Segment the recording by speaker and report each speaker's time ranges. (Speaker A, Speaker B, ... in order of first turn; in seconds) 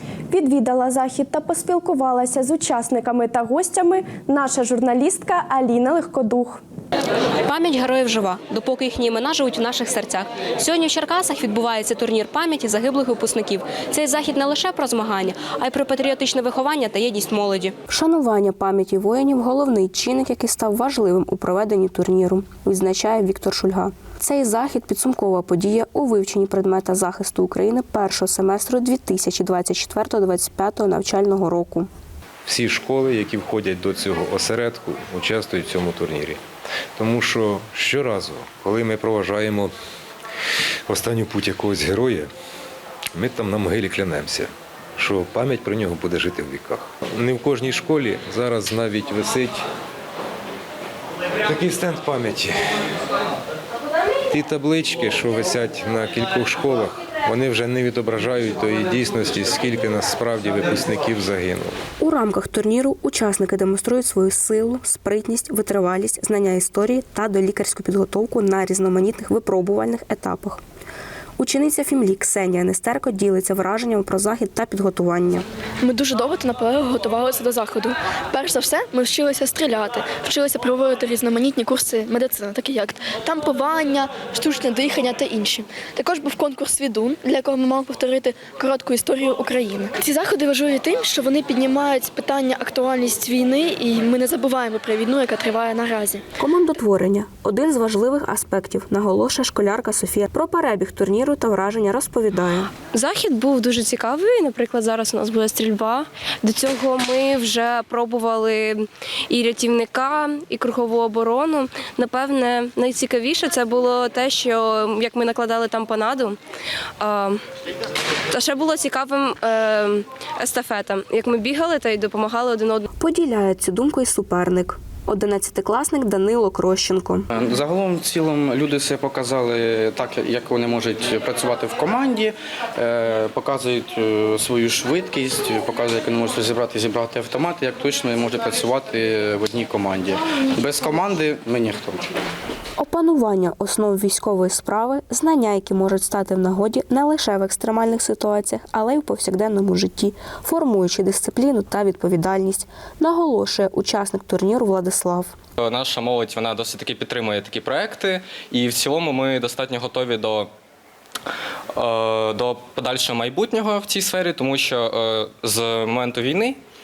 Speaker A: 0.3-6.6
Speaker B: 7.4-17.7
Speaker C: 17.9-31.9, 62.0-70.6, 71.4-75.5, 96.4-102.7, 123.0-127.3, 142.8-155.3
Speaker D: 32.5-36.4, 37.0-39.7, 40.9-42.3, 43.1-49.6, 51.4-52.5, 54.3-61.8
Speaker E: 75.8-96.2
Speaker F: 102.9-116.4, 117.0-117.4, 118.3-122.9
Speaker G: 127.4-140.1, 140.7-141.9
Speaker H: 155.6-160.5, 161.8-166.6